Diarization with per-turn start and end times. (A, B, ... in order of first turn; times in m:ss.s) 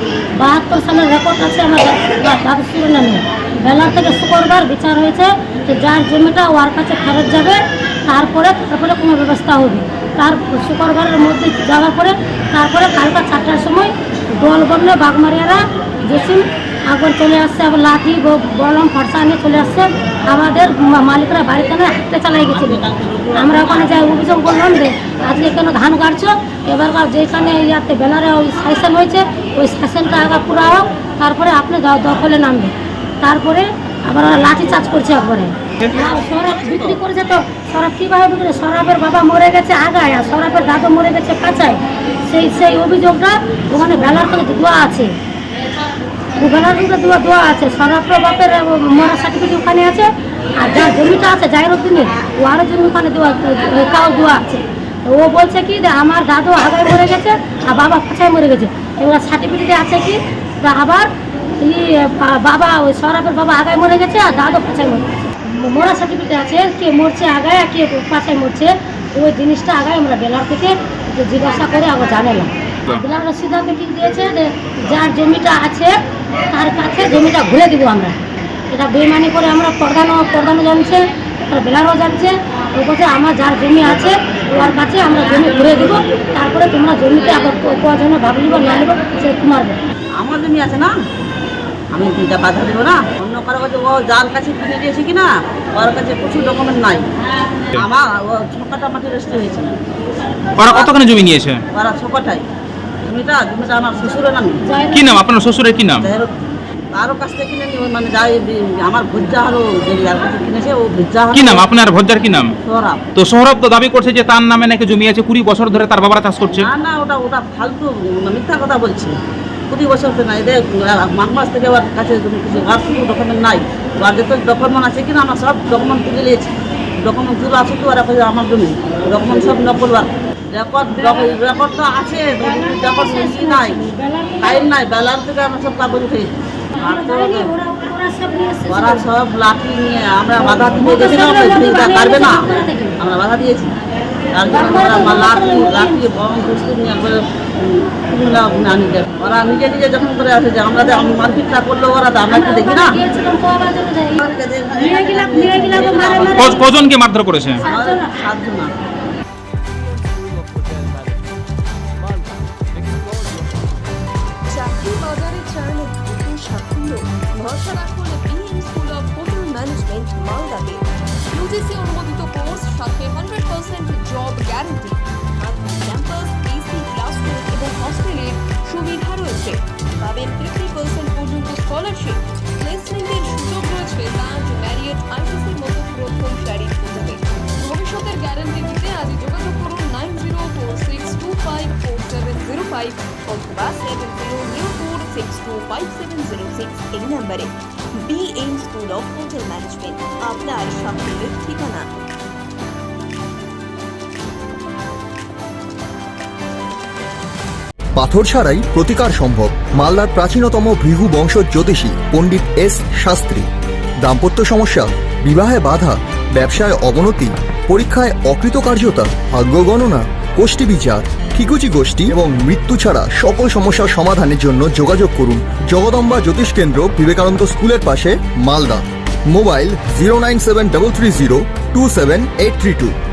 0:00.4-0:45.1 A
0:22.5-0:24.2 B
0:46.4-1:05.1 A
1:05.6-1:15.9 A
1:16.5-1:18.2 A
1:18.7-1:29.8 A
1:30.2-1:31.0 B
1:31.9-1:37.1 B
1:37.7-1:39.8 B
1:40.6-1:41.6 C
1:40.6-1:41.1 B
1:41.8-1:42.4 B
1:43.1-1:44.8 B
1:44.6-1:45.2 A
1:44.9-1:46.1 C
1:46.0-1:46.3 B
1:47.0-1:51.8 B
1:51.4-1:52.5 C
1:52.7-1:53.0 B
1:53.2-1:56.7 C
1:56.6-1:59.2 B
1:59.7-2:06.5 B
2:07.0-2:13.8 B
2:12.6-2:14.6 A
2:14.4-2:17.5 B
2:16.8-2:19.1 A
2:18.7-2:23.7 B
2:20.4-2:23.0 A
2:24.4-2:33.0 B
2:24.5-2:26.1 A
2:32.3-2:34.2 A
2:34.2-2:36.8 B
2:34.8-2:36.7 A
2:36.5-2:37.6 C
2:37.6-2:38.1 A
2:37.7-2:38.7 B
2:44.5-3:21.9 D
3:28.0-3:33.5 E
3:34.0-3:53.0 E